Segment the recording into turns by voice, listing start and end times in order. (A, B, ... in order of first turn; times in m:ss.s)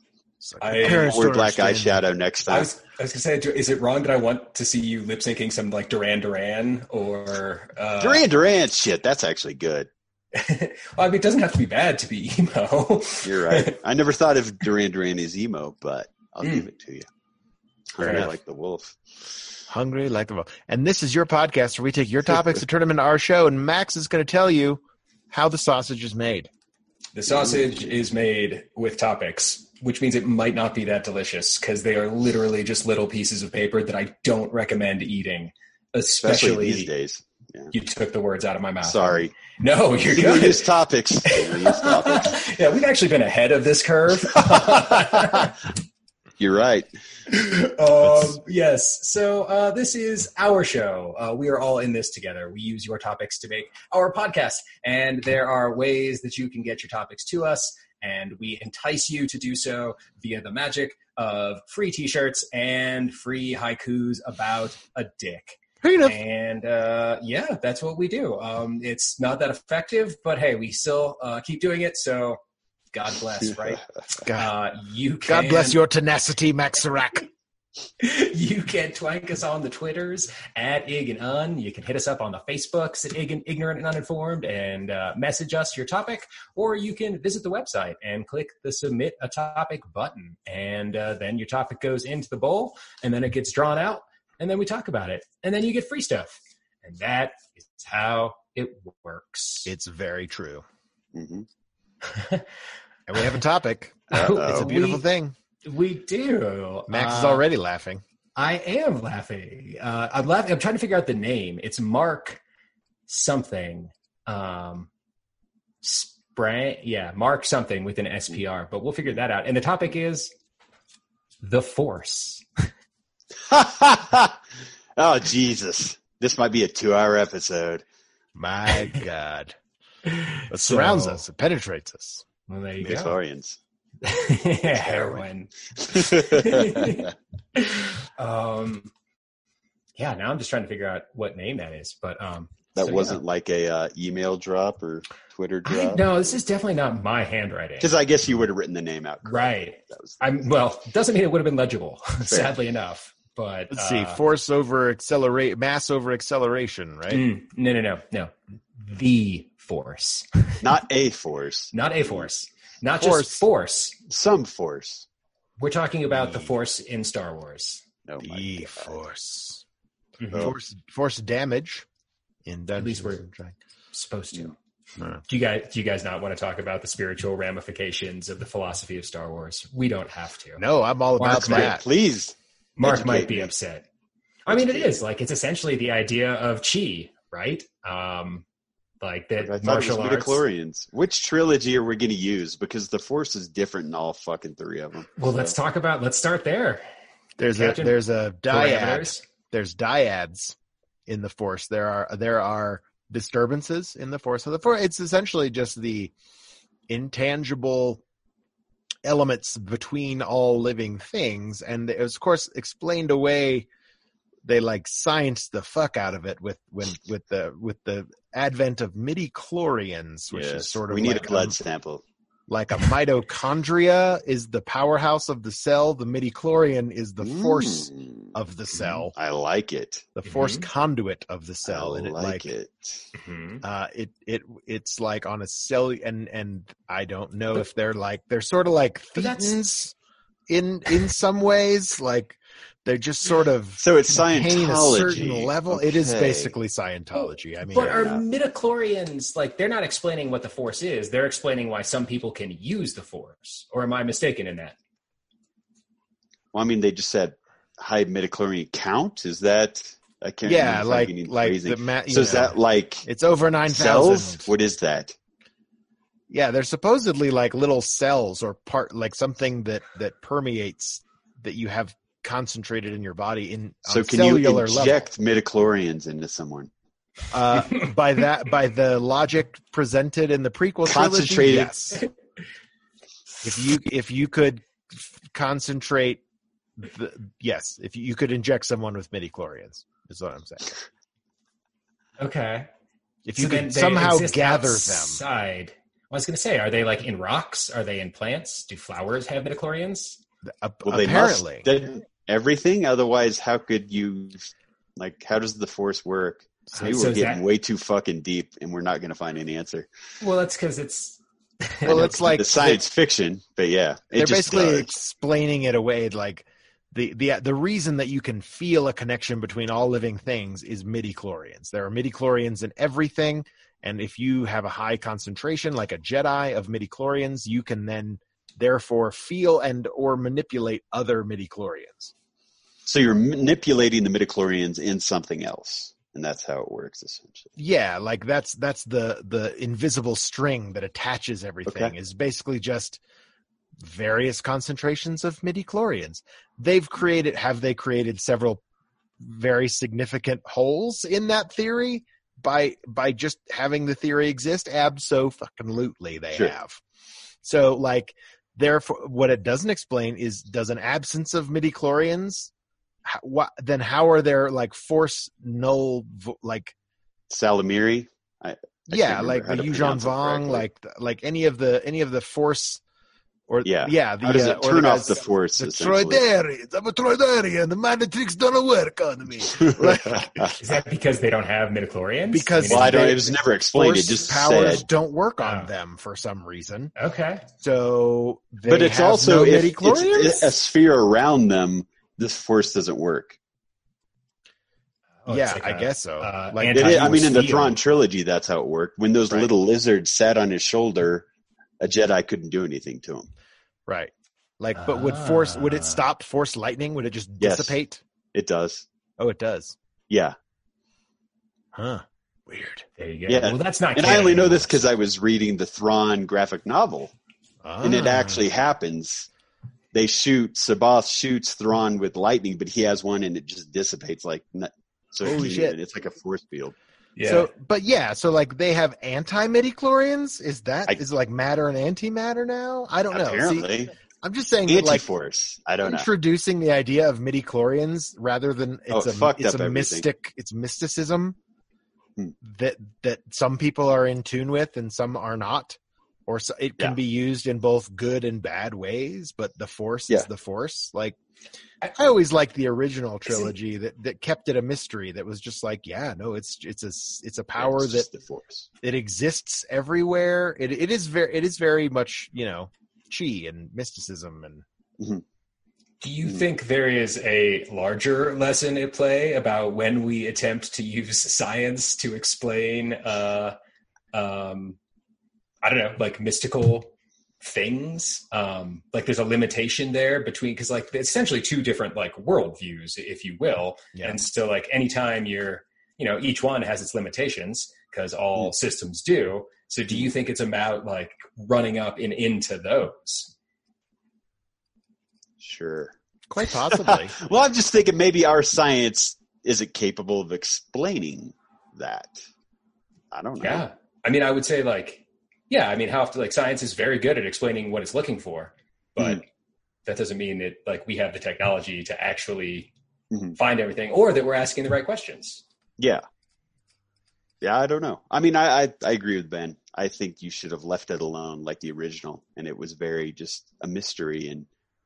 0:00.4-0:02.0 A
0:00.6-0:01.1 B
0:00.8-0:02.7 C
0:02.5-0:08.2 B
0:08.0-0:09.9 C
0:10.3-0:13.8 B
0:13.2-0:17.1 C
0:17.9-0:19.0 C
0:18.0-0:18.3 B
0:19.7-0:26.5 A
0:27.1-0:36.9 B
0:36.2-0:37.7 C
0:37.7-0:40.7 B
0:38.8-0:39.4 C
0:40.1-0:42.4 C
0:41.2-0:45.7 B
0:46.4-0:46.9 C
0:47.3-1:12.4 B
1:05.8-1:06.2 A
1:12.9-1:15.8 B
1:15.3-1:17.3 A
1:18.0-1:39.7 B
1:39.6-1:40.6 A
1:41.1-1:41.4 C
1:42.0-1:42.4 B
1:43.1-1:45.3 A
1:44.1-1:45.0 B
1:44.1-1:44.7 C
1:45.6-1:47.4 B
1:46.9-1:48.0 A
1:48.4-1:52.4 B
1:53.1-1:54.9 B
1:55.8-2:00.3 B
2:01.4-2:02.4 B
2:03.4-2:04.3 C
2:05.0-2:07.8 C
2:08.3-2:09.6 A
2:10.0-2:11.2 B
2:10.5-2:12.2 A
2:12.5-2:13.1 B
2:12.8-2:13.6 C
2:14.0-2:18.9 B
2:14.7-2:15.2 C
2:15.8-2:17.1 C
2:20.0-2:23.2 B
2:22.8-2:26.4 C
2:25.6-2:28.0 B
2:27.8-2:30.3 C
2:29.2-2:34.2 B
2:32.3-2:32.5 C
2:33.7-2:37.2 A
2:37.1-2:40.6 B
2:40.6-2:42.3 C
2:41.7-2:44.0 B
2:42.9-2:43.4 A
2:44.1-2:45.0 C
2:45.6-2:47.8 B
2:46.1-2:46.5 A
2:48.1-2:49.0 C
2:48.2-2:49.6 A
2:50.2-2:50.4 B
2:50.3-2:51.8 A
2:52.4-2:53.6 A
2:52.8-2:53.2 B
2:53.9-2:54.5 B
2:55.2-3:00.6 B
3:00.6-3:01.8 A
3:01.2-3:01.8 B
3:01.4-3:03.5 C
3:02.8-3:03.8 B
3:04.5-3:08.4 B
3:04.5-3:04.9 C
3:09.0-3:10.4 B
3:09.4-3:15.6 C
3:15.2-3:16.8 B
3:17.4-3:20.6 A
3:17.5-3:19.2 B
3:21.1-3:26.1 A
3:26.9-3:28.0 A
3:29.0-3:33.7 A
3:34.4-3:41.6 A
3:40.3-3:42.0 C
3:42.5-3:49.1 A
3:47.2-3:48.3 C
3:48.7-3:49.0 B
3:49.1-3:50.1 C
3:50.2-3:52.5 A
3:50.2-3:50.7 B
3:51.6-3:53.0 C
3:53.2-3:53.6 B
3:53.6-3:59.9 A
3:59.2-3:59.6 B
4:00.5-4:08.1 A
4:03.8-4:06.6 C
4:07.1-4:14.7 B
4:07.7-4:08.2 C
4:16.5-4:23.0 C
4:20.4-4:24.5 A
4:23.7-4:25.2 C
4:26.3-4:35.0 A
4:33.9-4:36.7 C
4:37.3-4:42.0 A
4:40.8-4:41.7 C
4:43.4-4:46.2 A
4:46.8-4:50.8 A
4:52.2-4:52.7 B
4:53.2-4:55.2 A
4:53.4-5:00.2 B
5:00.5-5:01.7 A
5:00.8-5:09.9 C
5:06.7-5:07.4 B
5:10.2-5:12.2 B
5:11.8-5:14.9 C
5:11.8-5:12.8 A
5:14.1-5:32.1 A
5:32.8-5:37.5 C
5:37.6-5:43.0 A
5:41.7-5:41.9 C
5:43.8-5:48.6 A
5:49.2-5:56.8 A
5:57.4-6:02.5 A
6:03.0-6:06.7 A
6:07.3-6:10.6 C
6:08.9-6:12.8 A
6:13.5-6:20.6 A
6:13.6-6:16.2 C
6:19.5-6:20.6 C
6:20.6-6:23.1 B
6:22.3-6:26.9 A
6:22.7-6:24.8 C
6:25.4-6:25.7 B
6:27.0-6:27.4 B
6:27.6-6:30.6 A
6:28.7-6:33.4 C
6:35.2-6:37.8 B
6:35.3-6:37.3 A
6:36.7-6:41.2 C
6:41.8-6:43.3 C
6:43.9-6:48.0 A
6:44.7-6:46.0 B
6:47.4-6:47.8 C
6:48.3-6:48.8 C
6:49.2-6:49.8 A
6:50.1-6:50.3 C
6:51.7-6:52.8 A
6:53.0-6:54.8 B
6:53.3-6:57.1 C
6:57.6-6:58.4 A
6:57.8-6:59.3 C
6:59.9-7:06.7 C
7:05.2-7:05.8 A
7:07.2-7:07.5 B
7:07.2-7:13.7 A
7:13.1-7:13.9 C
7:14.2-7:15.0 A
7:14.7-7:16.1 C
7:15.8-7:21.4 A
7:18.9-7:20.1 C
7:22.4-7:31.2 A
7:31.9-7:38.1 A
7:33.3-7:33.5 B
7:37.6-7:38.7 C
7:38.8-7:44.6 A
7:46.0-7:53.6 B
7:54.1-7:54.8 B
7:55.6-8:13.3 B
8:03.9-8:04.2 A
8:15.4-8:15.9 C
8:16.3-8:17.2 A
8:16.6-8:22.2 C
8:23.1-8:23.6 C
8:23.4-8:29.2 B
8:29.8-8:32.7 B
8:33.1-8:33.4 C
8:33.4-8:35.4 B
8:35.8-8:36.0 C
8:37.4-8:44.5 C